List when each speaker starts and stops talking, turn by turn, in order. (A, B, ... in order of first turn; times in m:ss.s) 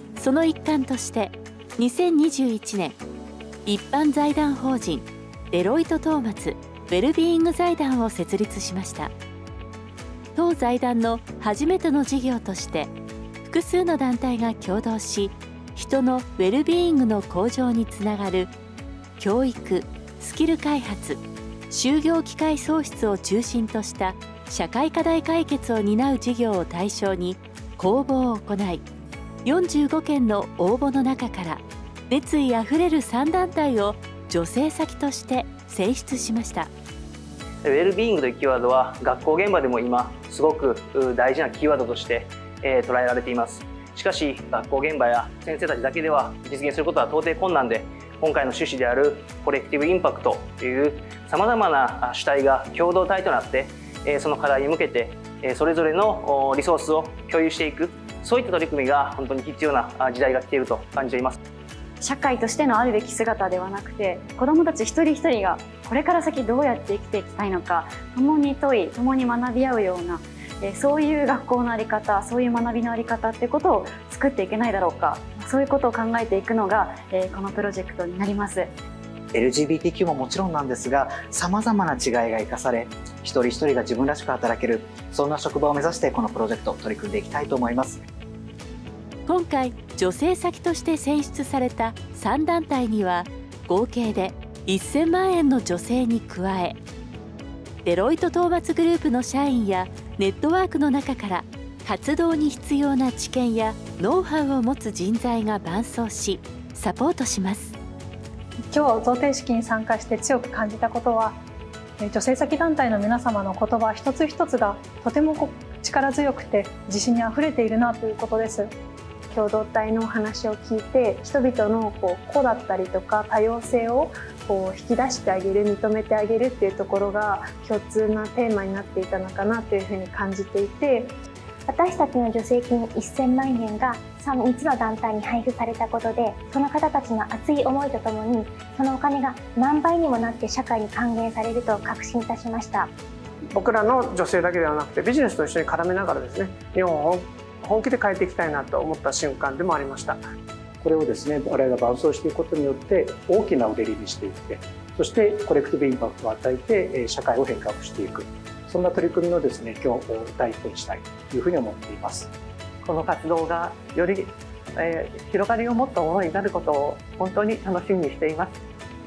0:00.2-0:03.0 A
0:03.6-0:09.1 A
0:10.3-0:12.9 A
0:13.4-0:18.5 A
0:19.2-0:28.8 A
0:29.4-0:36.7 A
0:37.6-1:01.4 B
1:02.0-1:18.8 C
1:19.3-1:28.0 D
1:29.2-1:36.8 A
1:37.8-1:47.8 A
1:48.7-1:51.4 E
1:52.0-1:58.7 E
1:59.3-2:11.1 F
2:11.7-2:22.9 G
2:23.5-2:30.2 H
2:30.8-2:42.3 I
2:42.8-2:44.3 J
2:44.8-2:48.5 J